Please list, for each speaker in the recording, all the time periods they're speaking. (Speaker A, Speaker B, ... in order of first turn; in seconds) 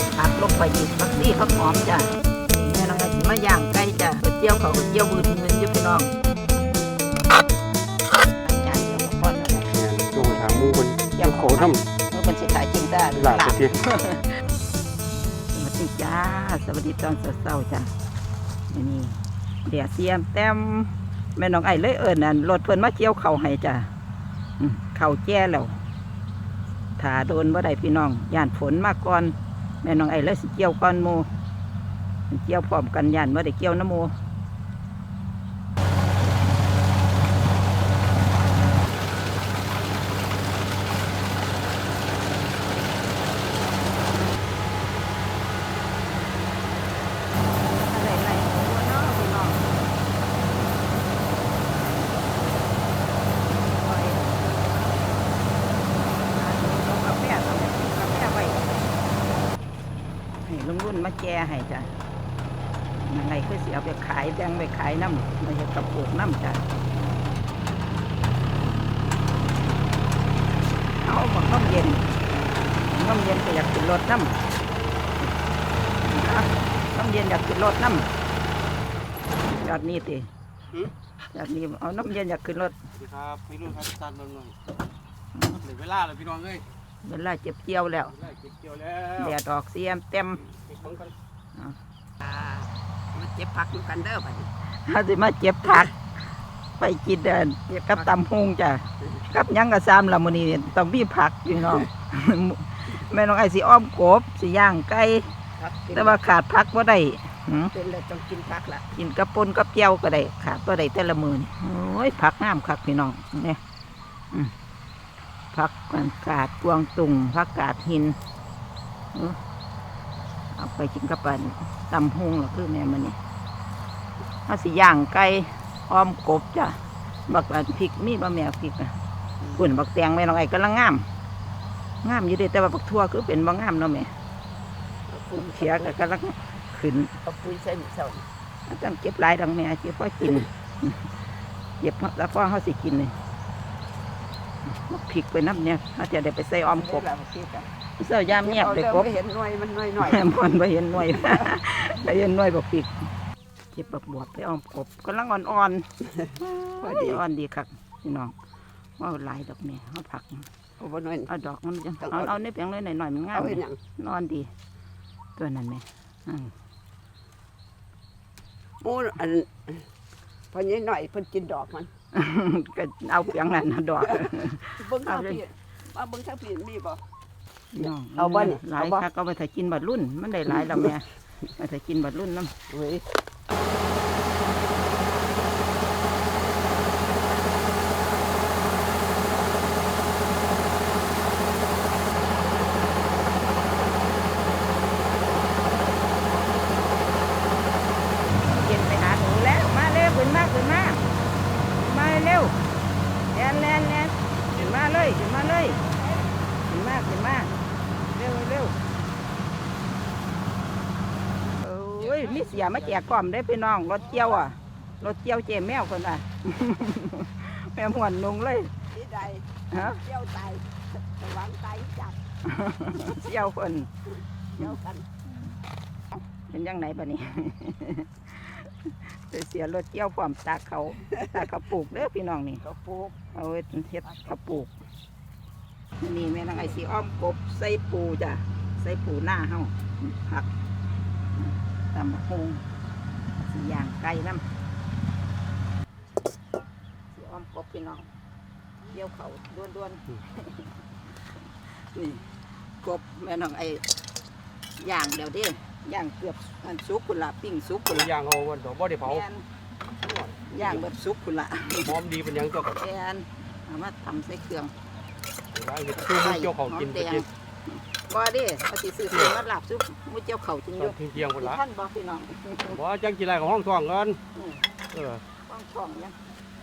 Speaker A: 0.1-6.1, 8.4-14.4, 15.5-17.9, 18.7-23.9, 24.6-25.8, 27.0-31.3, 32.3-34.1, 47.8-49.7, 53.5-55.1, 55.8-58.7, 60.4-61.9, 63.0-66.7, 71.0-74.4, 76.0-78.1, 79.5-80.3, 81.3-82.8, 85.3-85.6, 87.0-88.2, 89.2-90.5, 94.8-95.9, 96.8-105.3, 105.9-107.7, 108.9-113.6, 115.5-118.2, 119.1-119.4, 120.5-123.2, 124.5-129.0, 129.5-131.1, 132.0-134.1, 135.3-137.1, 138.7-141.1, 141.8-143.2, 144.7-149.1, 150.0-153.1, 153.7-158.3, 159.0-160.5, 161.3-164.5, 165.4-166.5, 172.1-175.4, 177.7-182.5, 198.4-201.1, 201.8-202.6, 203.3-205.9, 206.6-207.5, 208.1-208.8, 211.6-218.7, 219.7-220.0, 222.4-223.9, 226.3-232.6, 233.3-234.7, 236.0-240.5, 241.4-242.7, 243.4-244.5, 247.1-248.1, 248.9-250.7, 251.6-252.3, 252.8-253.9, 254.8-258.1, 259.0-259.4, 260.5-262.0, 262.7-264.7, 266.0-272.8, 274.4-274.6, 275.4-276.2
Speaker B: 9.7-11.9, 13.1-13.8, 82.9-84.6, 85.6-86.7, 88.0-89.4, 90.5-91.1, 204.5-205.1, 257.9-259.2, 260.0-260.9, 261.8-262.8, 265.5-267.3, 269.1-269.4, 270.8-271.6, 272.7-274.2, 274.9-275.2
Speaker C: 92.2-94.5, 105.6-106.2, 107.7-108.8, 135.1-135.9, 137.2-138.3, 146.8-147.6, 148.3-150.3, 151.0-151.5, 156.8-157.2, 160.8-161.3, 162.0-162.3, 163.3-163.8, 168.8-169.9, 170.5-171.9, 174.1-177.0, 177.8-179.1, 180.6-180.9, 182.7-183.1, 212.1-213.0, 218.9-222.2, 224.6-225.1, 232.6-233.3